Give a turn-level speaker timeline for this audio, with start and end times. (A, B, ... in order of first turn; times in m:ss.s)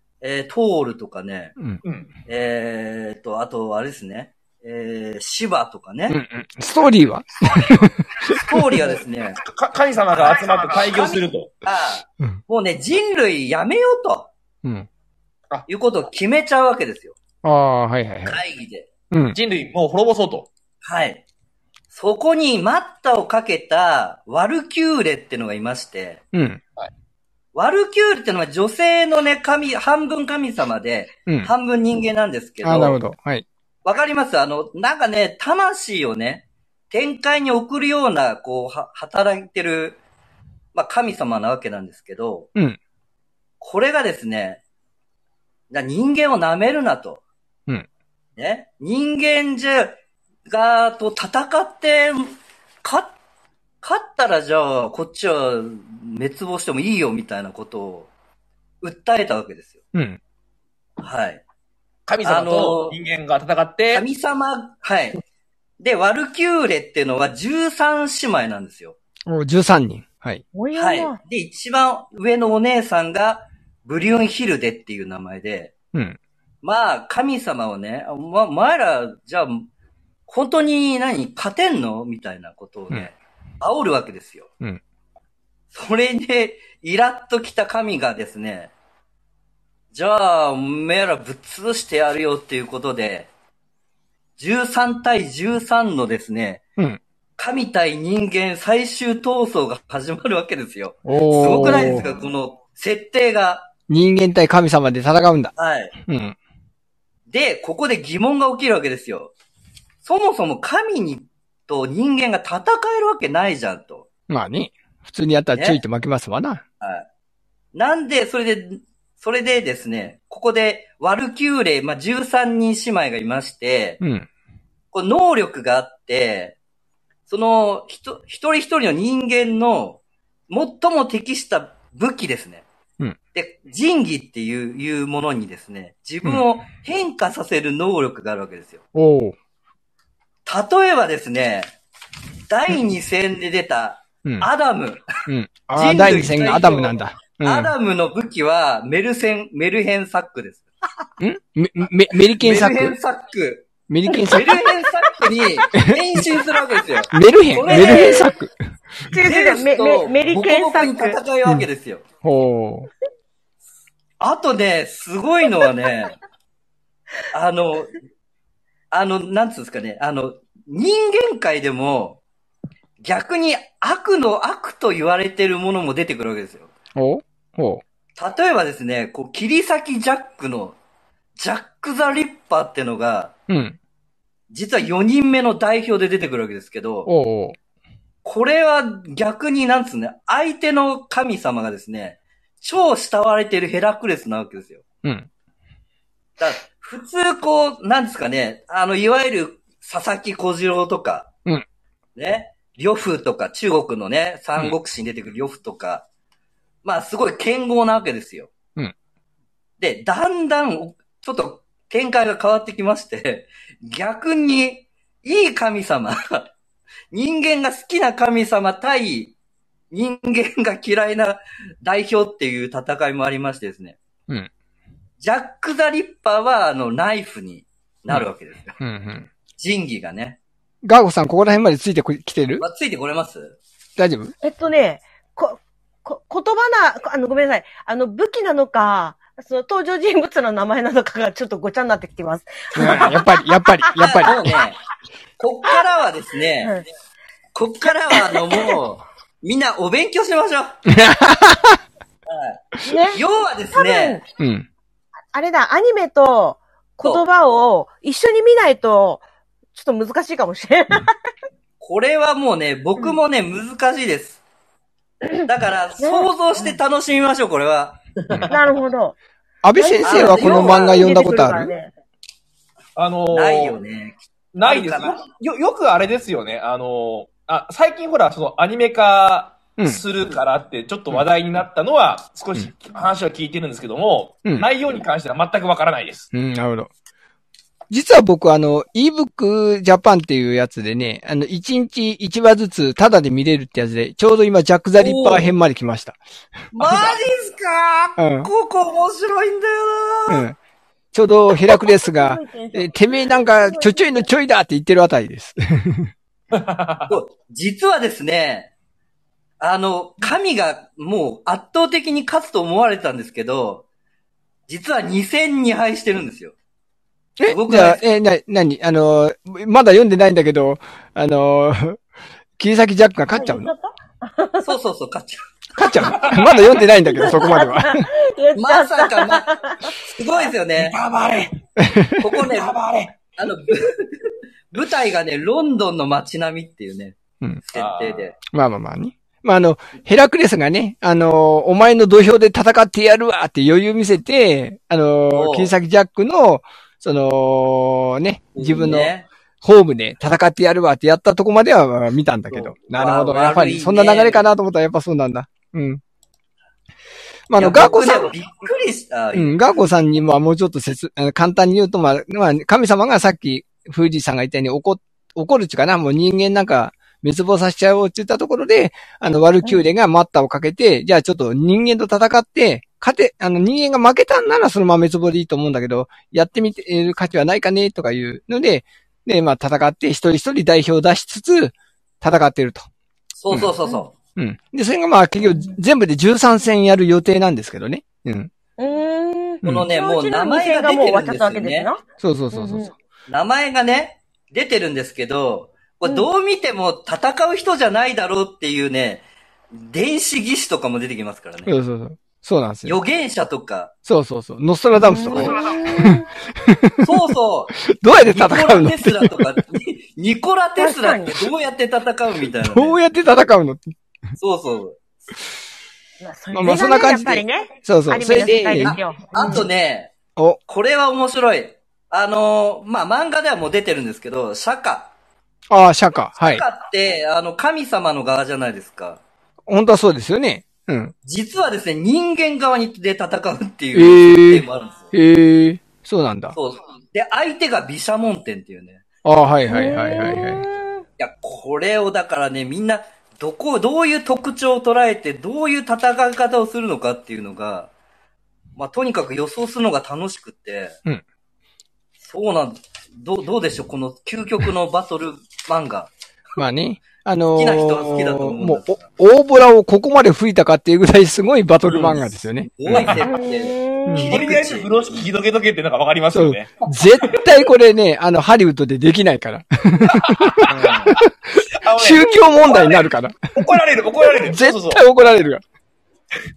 0:00.2-0:01.6 A
0:01.8-0:02.1 B
0:02.3-0:06.2 A
0:06.1-0:08.4 C
0:08.3-0:09.4 A
0:09.4-0:11.5 B
0:10.2-0:14.3 A
0:15.7-0:17.2 A
0:17.4-0:18.4 C
0:18.3-0:18.9 A
0:19.1-0:19.4 C
0:19.3-0:20.5 B
0:20.8-0:21.2 A
0:21.9-0:26.2 A
0:26.3-0:26.6 C
0:27.5-0:33.0 A
0:32.6-0:33.5 C
0:33.8-0:40.0 A
0:40.7-0:42.5 A
0:43.6-0:44.6 A
0:45.7-0:47.2 A
0:48.4-0:53.2 A
0:53.8-0:58.1 A
0:58.8-0:59.8 A
0:59.9-1:00.2 C
1:01.0-1:01.4 A
1:02.1-1:04.0 B
1:02.2-1:03.0 A
1:03.9-1:05.2 A
1:05.8-1:09.0 A
1:09.3-1:10.4 C
1:10.5-1:11.2 D
1:10.7-1:15.7 A
1:16.6-1:19.7 A
1:20.3-1:24.5 A
1:25.7-1:28.7 A
1:29.9-1:33.3 A
1:34.4-1:36.6 A
1:37.4-1:43.7 A
1:41.1-1:42.1 C
1:43.9-1:45.5 C
1:45.6-1:46.0 A
1:46.1-1:46.4 C
1:47.3-1:49.3 A
1:50.0-1:54.1 A
1:54.3-1:56.6 C
1:55.5-1:55.8 A
1:56.8-1:57.1 A
1:57.7-2:04.0 A
2:04.0-2:04.3 C
2:04.9-2:06.6 A
2:07.3-2:12.7 A
2:13.3-2:18.8 A
2:18.9-2:19.4 C
2:20.5-2:21.7 A
2:22.5-2:25.0 A
2:25.3-2:27.7 C
2:25.7-2:30.7 A
2:31.2-2:33.0 C
2:32.3-2:38.3 A
2:33.9-2:34.6 C
2:35.8-2:36.0 C
2:37.1-2:38.5 C
2:37.7-2:38.3 D
2:39.1-2:41.2 D
2:39.2-2:42.0 A
2:42.2-2:42.9 C
2:44.2-2:46.2 A
2:47.3-2:48.0 A
2:48.9-2:52.2 A
2:53.0-2:56.7 A
2:57.0-2:57.8 C
2:58.2-3:00.8 A
3:01.4-3:03.3 A
3:03.5-3:03.8 C
3:04.5-3:07.1 A
3:07.1-3:07.6 C
3:08.2-3:14.8 A
3:16.4-3:21.3 A
3:22.2-3:26.1 A
3:26.8-3:28.5 A
3:29.8-3:36.5 A
3:37.1-3:39.3 A
3:39.9-3:44.0 A
3:45.2-3:48.8 A
3:48.8-3:49.3 C
3:49.6-3:50.4 A
3:50.8-3:52.6 C
3:52.6-3:53.6 A
3:54.0-3:54.3 C
3:54.4-4:04.3 D
4:02.8-4:04.5 C
4:04.0-4:04.8 A
4:05.4-4:06.8 A
4:07.5-4:10.8 A
4:08.1-4:08.8 D
4:10.9-4:11.8 C
4:12.3-4:14.2 A
4:12.8-4:13.2 D
4:13.7-4:14.2 D
4:14.4-4:14.7 C
4:15.3-4:21.1 D
4:21.8-4:24.4 A
4:25.5-4:28.0 A
4:26.0-4:26.7 D
4:28.5-4:29.2 D
4:29.6-4:31.7 C
4:29.8-4:31.9 D
4:30.0-4:31.0 A
4:33.0-4:33.8 B
4:33.3-4:35.2 A
4:34.5-4:46.3 B
4:46.3-4:46.9 C
4:47.9-4:56.2 C
4:55.0-4:55.5 A
4:56.7-5:00.5 A
4:56.8-4:57.2 B
4:58.2-4:58.5 C
5:00.3-5:00.6 C
5:01.1-5:06.1 C
5:02.1-5:04.2 D
5:06.5-5:07.2 B
5:07.1-5:08.7 A
5:09.6-5:13.9 A
5:14.7-5:16.5 A
5:17.4-5:22.0 C
5:17.5-5:18.0 A
5:22.6-5:23.7 C
5:23.4-5:24.7 D
5:24.6-5:26.3 A
5:25.8-5:28.1 C
5:26.2-5:26.7 B
5:27.1-5:29.9 D
5:28.6-5:31.0 A
5:30.8-5:31.5 B
5:31.8-5:32.3 C
5:32.2-5:32.8 A
5:32.5-5:33.2 B
5:33.4-5:38.4 A
5:37.8-5:38.3 B
5:38.5-5:56.0 C
5:45.3-5:45.7 A
5:48.6-5:49.3 A
5:52.5-5:54.5 A
5:57.5-5:58.3 C
5:57.6-5:59.6 A
5:59.3-6:22.9 C
6:23.4-6:24.1 A
6:24.4-6:28.5 C
6:25.4-6:25.8 D
6:28.8-6:32.9 D
6:29.6-6:29.9 C
6:29.6-6:31.9 A
6:32.2-6:32.9 C
6:33.3-6:41.7 A
6:41.7-6:43.0 C
6:42.8-6:43.9 A
6:44.1-6:47.2 C
6:45.0-6:46.2 D
6:45.3-6:45.7 A
6:47.0-6:53.0 A
6:47.9-6:49.4 C
6:50.8-6:51.4 D
6:52.6-6:53.8 C
6:54.4-6:55.0 A
6:56.2-6:59.7 D
6:56.5-6:59.0 C
6:58.8-7:00.1 A
7:00.7-7:05.1 A
7:05.7-7:06.6 C
7:06.4-7:09.2 A
7:09.7-7:11.1 C
7:11.2-7:15.1 A
7:13.9-7:16.6 C
7:16.6-7:19.0 A
7:19.2-7:20.6 C
7:19.7-7:21.0 D
7:21.2-7:27.9 A
7:28.8-7:31.0 A
7:32.2-7:36.1 A
7:36.6-7:43.2 C
7:37.6-7:39.1 A
7:41.9-7:44.9 A
7:42.9-7:43.2 B
7:43.2-7:44.4 D
7:44.1-7:44.4 C
7:44.3-7:47.6 B
7:46.3-7:53.5 C
7:50.0-7:51.2 B
7:50.7-7:51.2 A
7:51.8-7:55.0 B
7:54.3-7:55.6 C